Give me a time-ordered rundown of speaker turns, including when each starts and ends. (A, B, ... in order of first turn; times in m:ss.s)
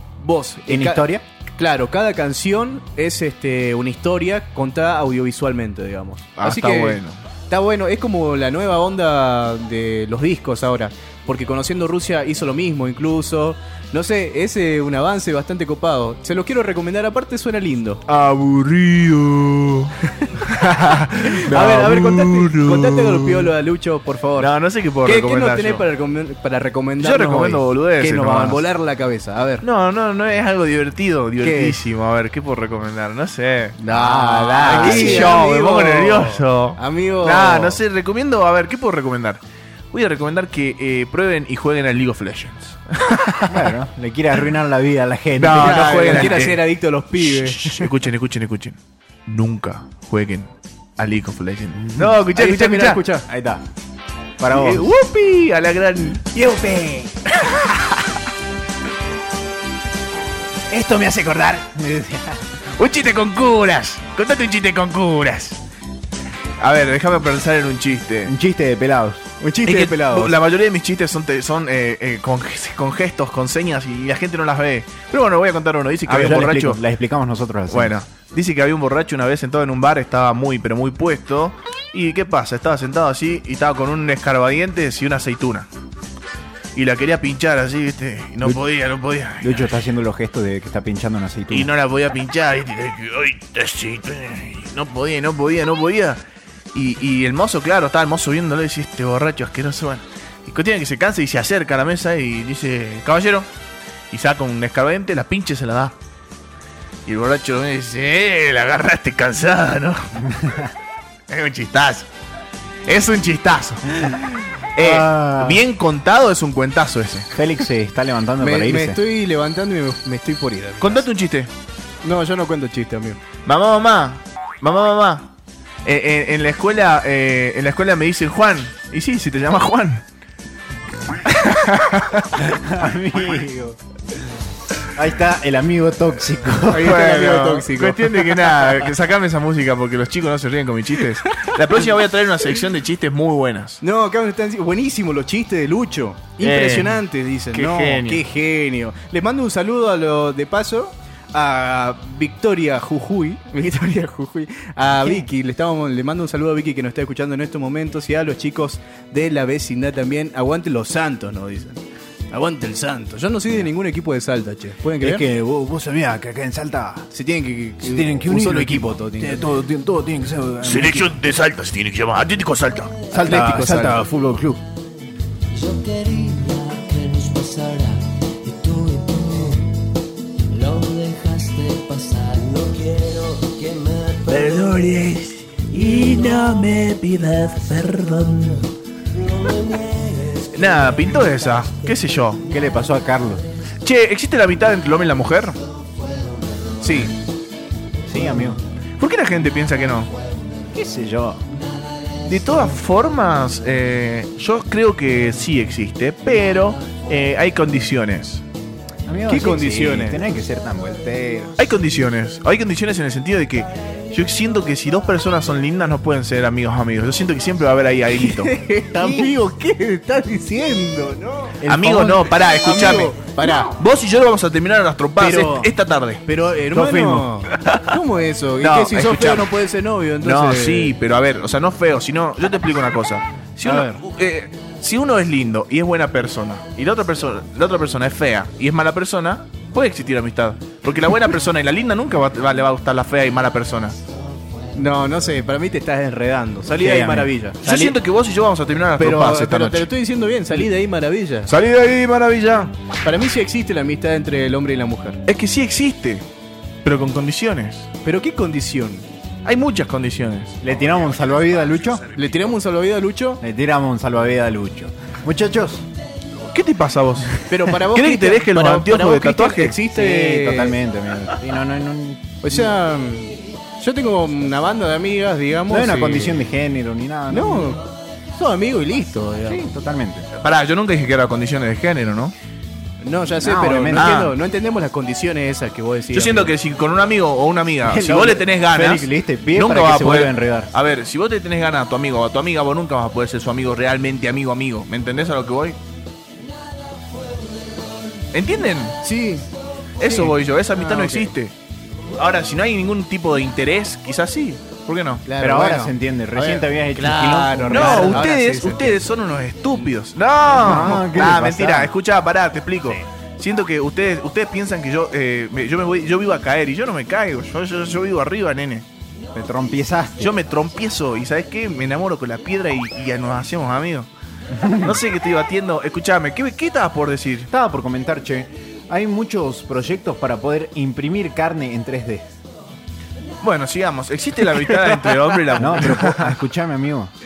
0:00.2-0:18.0 A
0:00.7-0:01.2 B
0:06.4-0:07.2 C
0:18.1-0:23.5 C
0:21.2-0:24.5 A
0:24.4-0:25.8 C
0:25.0-0:29.6 A
0:27.0-0:28.6 C
0:29.6-0:43.4 C
0:31.4-0:31.8 A
0:33.8-0:37.8 A
0:34.6-0:35.4 B
0:43.4-0:46.5 B
0:45.4-0:53.0 C
0:45.5-0:47.9 A
0:51.8-0:52.2 B
0:52.3-0:53.3 A
0:53.2-0:53.6 B
0:54.4-0:54.9 B
0:54.5-0:56.4 C
0:56.3-0:57.1 B
0:57.4-0:58.1 C
1:00.7-1:02.6 B
1:02.8-1:05.6 C
1:06.6-1:08.3 C
1:08.2-1:09.3 B
1:09.4-1:10.4 A
1:09.6-1:16.8 C
1:16.0-1:18.0 B
1:17.7-1:25.7 C
1:26.7-1:29.7 C
1:29.4-1:31.7 B
1:31.5-1:36.2 C
1:36.7-1:43.5 C
1:44.1-1:45.9 C
1:47.0-1:50.2 C
1:50.3-1:50.7 B
1:51.3-1:52.1 C
1:52.8-1:57.3 C
1:54.8-1:55.6 B
1:57.3-1:59.0 B
1:58.4-2:01.0 A
2:00.8-2:01.5 C
2:02.0-2:03.2 A
2:03.4-2:05.3 C
2:05.8-2:10.0 C
2:11.2-2:12.4 C
2:12.4-2:13.8 B
2:14.9-2:17.0 B
2:16.7-2:18.8 A
2:16.8-2:23.8 C
2:21.3-2:21.8 A
2:23.8-2:41.8 A
2:26.4-2:27.0 C
2:27.5-2:28.2 C
2:42.3-2:45.3 A
2:45.0-2:47.1 B
2:47.1-2:49.4 A
2:47.8-2:51.2 B
2:50.6-2:53.0 C
2:53.1-2:54.6 B
2:53.1-2:54.0 A
2:55.6-2:59.6 D
3:00.5-3:04.8 D
3:04.3-3:08.6 C
3:09.3-3:10.5 D
3:10.5-3:12.4 C
3:12.5-3:13.4 B
3:13.8-3:15.6 C
3:16.8-3:17.1 A
3:18.1-3:18.6 B
3:19.0-3:20.1 C
3:20.7-3:21.4 B
3:22.2-3:28.4 C
3:29.0-3:31.6 B
3:29.3-3:30.2 A
3:31.6-3:38.5 C
3:38.1-3:43.7 A
3:38.9-3:39.3 B
3:41.6-3:46.2 C
3:45.2-3:45.7 A
3:46.2-3:50.9 A
3:46.7-3:47.2 B
3:47.5-3:47.9 C
3:48.6-3:49.5 C
3:50.2-4:04.0 C
3:53.6-3:54.0 A
4:04.7-4:07.6 A
4:06.7-4:08.0 B
4:07.6-4:09.9 C
4:09.0-4:11.5 A
4:11.5-4:12.7 C
4:13.0-4:15.2 A
4:15.2-4:16.2 C
4:16.8-4:17.9 C
4:18.0-4:19.0 A
4:19.4-4:20.6 C
4:20.6-4:22.0 B
4:22.1-4:23.4 A
4:23.4-4:25.9 B
4:26.4-4:29.8 C
4:27.5-4:30.8 A
4:29.8-4:32.7 B
4:32.4-4:36.4 A
4:35.7-4:37.8 B
4:37.3-4:39.7 A
4:39.4-4:40.3 B
4:40.4-4:42.3 C
4:43.0-4:46.5 A
4:43.4-4:44.2 B
4:43.9-4:44.3 C
4:46.1-4:55.8 C
4:47.8-4:50.7 B
4:58.3-4:59.0 C
4:59.0-4:59.5 A
5:00.0-5:01.5 C
5:00.0-5:01.3 A
5:02.2-5:05.2 C
5:05.2-5:09.0 A
5:05.4-5:08.3 B
5:07.7-5:18.8 C
5:10.5-5:11.9 B
5:10.7-5:11.0 A
5:19.3-5:20.3 B
5:20.2-5:24.1 C
5:24.5-5:25.0 B
5:24.8-5:27.5 C
5:27.5-5:32.3 B
5:33.4-5:36.4 C
5:34.7-5:35.8 A
5:35.6-5:37.1 B